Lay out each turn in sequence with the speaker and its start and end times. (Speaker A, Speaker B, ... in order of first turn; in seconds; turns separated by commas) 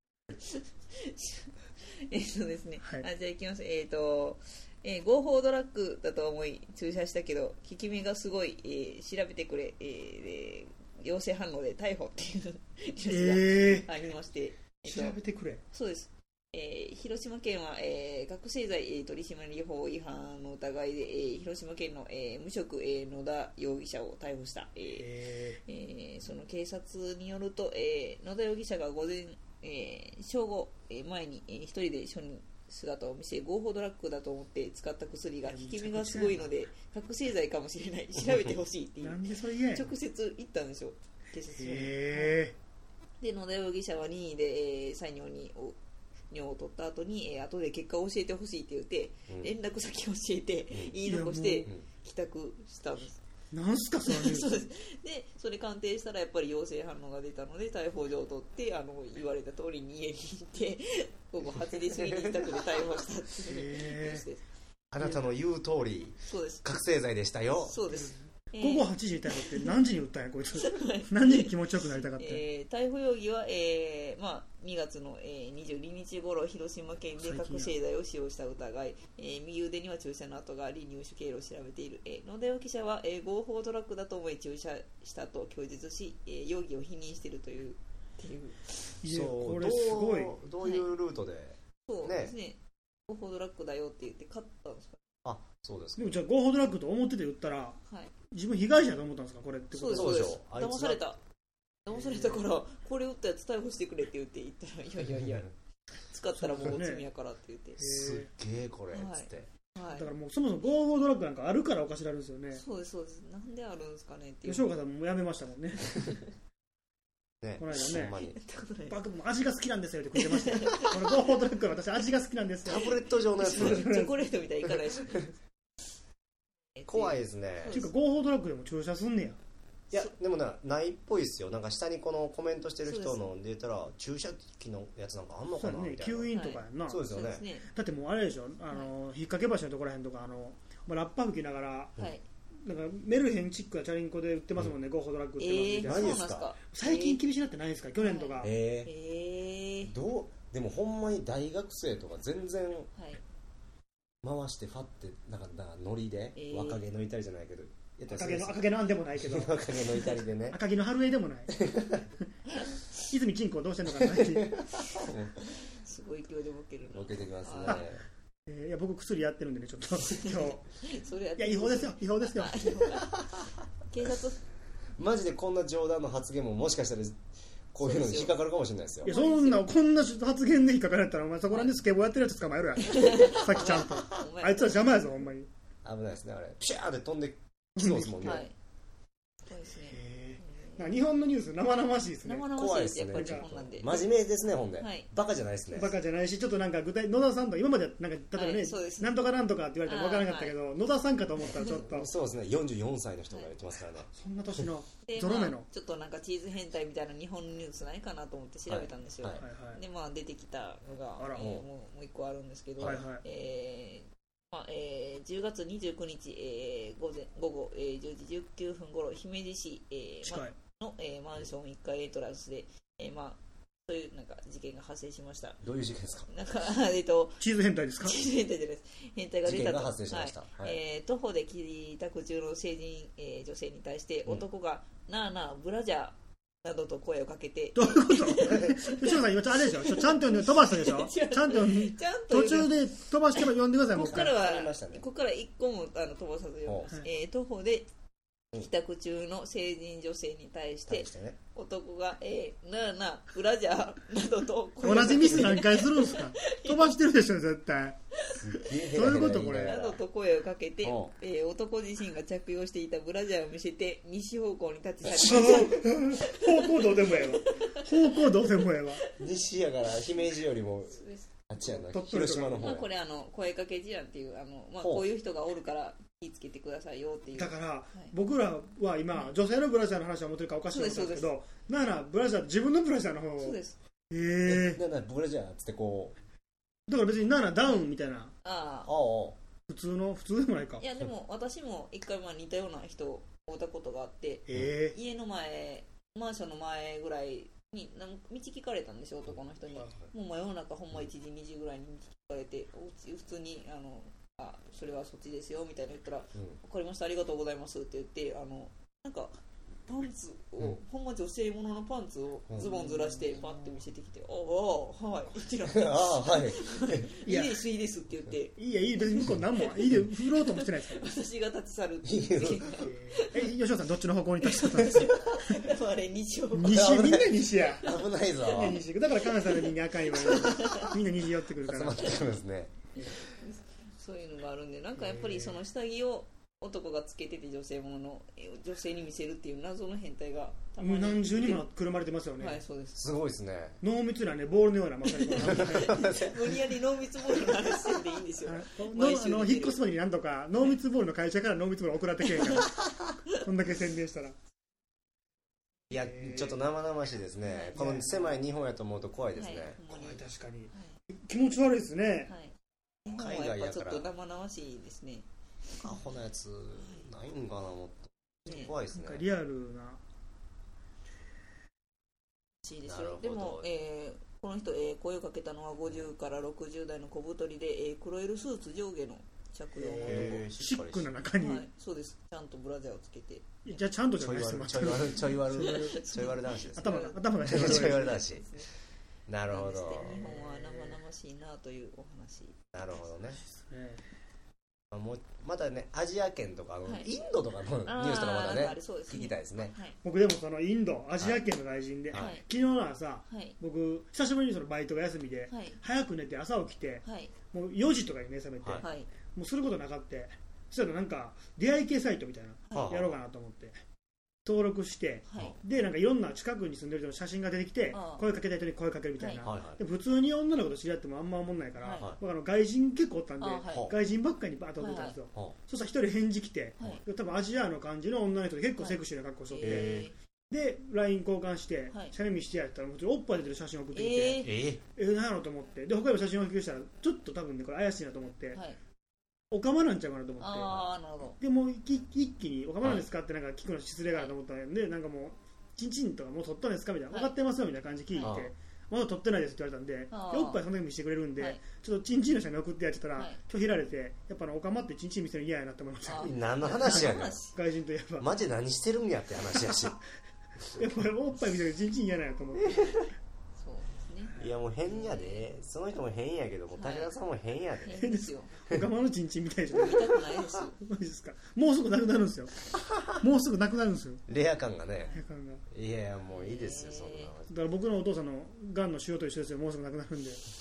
Speaker A: 0.4-15.2, Speaker B: 13.1-13.9, Speaker B: 14.8-15.6, Speaker A: 15.7-25.1, Speaker B: 24.9-25.6, Speaker A: 25.6-39.2, Speaker B: 35.5-36.5, Speaker C: 38.2-38.5, Speaker B: 39.0-39.9, Speaker A: 39.7-42.4, Speaker B: 41.6-42.5, Speaker A: 43.2-45.8, Speaker A: 46.3-53.2, Speaker B: 51.0-51.7, Speaker B: 53.5-54.7, Speaker A: 54.0-64.4, Speaker C: 61.5-62.8, Speaker B: 63.5-64.2, Speaker C: 64.9-67.8, Speaker A: 66.3-66.7, Speaker A: 67.6-69.7, Speaker B: 67.9-72.4, Speaker A: 70.5-88.9, Speaker B: 77.2-77.7, Speaker B: 89.0-90.3, Speaker C: 89.0-92.3, Speaker A: 90.6-90.9, Speaker A: 91.9-95.0, Speaker C: 95.2-96.2, Speaker B: 96.0-97.8, Speaker B: 98.3-100.3, Speaker A: 99.7-101.2, Speaker C: 99.9-101.0, Speaker A: 101.8-105.5, Speaker B: 102.0-102.4, Speaker A: 106.1-107.8, Speaker B: 106.4-107.0, Speaker B: 107.8-108.3, Speaker C: 107.8-109.5, Speaker A: 108.9-110.0, Speaker B: 109.9-112.6, Speaker A: 112.5-114.7, Speaker B: 114.5-116.0, Speaker C: 117.4-118.4, Speaker B: 117.6-118.2, Speaker A: 118.2-119.0, Speaker B: 118.9-124.2, Speaker A: 120.1-121.1, Speaker C: 122.7-123.9, Speaker A: 122.8-125.3, Speaker A: 126.7-127.9, Speaker C: 126.9-127.8, Speaker B: 127.7-129.4, Speaker C: 129.9-136.3, Speaker A: 132.8-133.3, Speaker B: 135.6-137.0, Speaker A: 136.3-137.7, Speaker C: 136.9-137.4, Speaker B: 137.7-141.9, Speaker B: 142.6-148.5, Speaker A: 145.4-147.2, Speaker C: 145.8-146.5, Speaker A: 148.0-149.9, Speaker C: 148.4-148.9, Speaker C: 149.8-152.9, Speaker A: 152.9-153.2, Speaker C: 154.2-158.6, Speaker A: 156.3-156.8, Speaker B: 158.1-159.5, Speaker C: 159.2-160.6, Speaker B: 160.5-161.5, Speaker C: 161.5-162.1, Speaker B: 163.1-164.6, Speaker C: 164.0-165.4, Speaker A: 165.6-167.8, Speaker C: 166.9-168.0, Speaker B: 168.5-170.6, Speaker A: 170.2-173.2, Speaker B: 171.4-172.8, Speaker A: 173.9-174.4, Speaker C: 175.0-177.2, Speaker C: 177.7-179.1, Speaker A: 177.8-178.3, Speaker A: 179.0-179.7, Speaker B: 179.0-185.5, Speaker A: 182.8-184.7, Speaker C: 185.8-188.4, Speaker B: 187.8-188.4, Speaker A: 188.2-188.5, Speaker A: 189.5-190.9, Speaker B: 189.9-192.5, Speaker A: 192.2-194.1, Speaker C: 192.5-195.9, Speaker B: 193.1-193.5, Speaker A: 194.8-195.1, Speaker B: 195.7-202.1, Speaker A: 198.3-199.2, Speaker A: 199.8-200.5, Speaker C: 201.6-204.1, Speaker B: 204.1-205.7, Speaker A: 205.0-225.6, Speaker C: 208.7-209.4, Speaker B: 209.4-209.8, Speaker B: 211.2-211.5, Speaker C: 211.4-211.7, Speaker B: 212.8-213.2, Speaker B: 220.2-220.5, Speaker C: 225.6-226.3, Speaker A: 226.3-227.4, Speaker B: 227.4-228.2, Speaker A: 228.0-247.9, Speaker C: 229.4-230.8, Speaker B: 237.8-244.3, Speaker C: 243.9-245.0, Speaker A: 248.5-256.9, Speaker C: 250.9-251.4, Speaker B: 254.8-258.0, Speaker C: 254.9-255.6, Speaker A: 258.2-258.6, Speaker C: 258.4-260.0, Speaker B: 258.8-259.8, Speaker A: 259.5-268.3, Speaker C: 260.8-261.1, Speaker C: 265.1-265.7, Speaker B: 265.1-269.0, Speaker C: 269.2-272.9, Speaker A: 270.9-271.3, Speaker B: 271.7-272.8, Speaker A: 272.6-278.1, Speaker C: 274.8-275.1, Speaker B: 277.4-283.6, Speaker A: 280.7-281.3, Speaker A: 283.4-283.8, Speaker B: 284.1-284.8, Speaker C: 284.4-286.1, Speaker B: 286.9-288.3, Speaker A: 288.4-288.9, Speaker C: 288.9-289.4, Speaker B: 289.7-290.8, Speaker A: 290.8-309.3, Speaker B: 294.5-294.9, Speaker A: 309.9-323.5, Speaker B: 312.6-313.8, Speaker C: 315.7-317.1, Speaker B: 317.2-317.6, Speaker B: 318.6-321.1, Speaker C: 322.0-322.8, Speaker B: 322.7-325.5, Speaker A: 324.4-326.9, Speaker B: 326.5-332.2, Speaker C: 326.7-328.8, Speaker A: 329.3-331.0, Speaker C: 331.6-332.9, Speaker A: 333.1-341.6, Speaker B: 335.0-335.6, Speaker B: 340.8-342.6, Speaker A: 342.4-343.0, Speaker C: 342.9-343.8, Speaker B: 343.8-346.1, Speaker A: 345.2-349.8, Speaker C: 345.4-346.6, Speaker B: 348.4-354.4, Speaker A: 352.4-352.7, Speaker C: 355.9-359.8, Speaker B: 355.9-356.6, Speaker A: 357.4-357.8, Speaker B: 357.7-358.5, Speaker A: 359.4-360.2, Speaker B: 359.9-362.3, Speaker A: 362.3-362.5, Speaker A: 363.0-365.2, Speaker C: 363.1-364.1, Speaker C: 365.8-369.2, Speaker A: 366.8-367.1, Speaker A: 368.4-368.7, Speaker B: 368.9-370.0, Speaker A: 372.6-380.4, Speaker C: 372.9-373.7, Speaker B: 379.8-381.7, Speaker C: 380.0-381.1, Speaker A: 381.4-383.8, Speaker B: 383.6-386.1, Speaker C: 384.2-388.4, Speaker A: 385.6-388.7, Speaker B: 386.8-388.2, Speaker C: 389.3-390.3, Speaker A: 389.5-392.6, Speaker B: 390.1-390.9, Speaker C: 392.7-393.4, Speaker B: 393.5-394.0, Speaker C: 394.9-399.7, Speaker A: 396.8-397.1, Speaker A: 397.8-400.0, Speaker B: 400.0-413.8, Speaker A: 402.1-402.4, Speaker A: 403.3-403.5, Speaker A: 405.5-405.8, Speaker A: 407.0-407.3, Speaker A: 408.8-409.1, Speaker C: 412.7-413.2, Speaker B: 414.4-438.6, Speaker A: 415.3-415.6, Speaker A: 417.9-418.2, Speaker A: 419.2-419.4, Speaker C: 419.4-419.8, Speaker A: 421.8-422.1, Speaker A: 423.4-423.9, Speaker A: 424.8-425.1, Speaker A: 429.5-430.1, Speaker C: 429.6-430.1, Speaker A: 433.9-434.6, Speaker C: 434.4-434.8, Speaker B: 439.5-440.9, Speaker A: 440.4-441.4, Speaker B: 441.4-458.3, Speaker C: 448.2-448.5, Speaker A: 450.1-450.6, Speaker A: 456.1-457.5, Speaker C: 456.2-457.4, Speaker C: 458.2-459.9, Speaker B: 460.7-463.0, Speaker A: 463.6-465.4, Speaker C: 464.4-468.0, Speaker A: 466.7-467.1, Speaker A: 467.8-468.5, Speaker B: 467.9-472.5, Speaker A: 469.7-470.8, Speaker C: 472.7-473.2, Speaker B: 473.1-474.2, Speaker C: 474.3-475.1, Speaker A: 475.0-475.2, Speaker B: 475.1-475.6, Speaker C: 475.7-477.5, Speaker A: 476.3-477.3, Speaker B: 477.5-480.4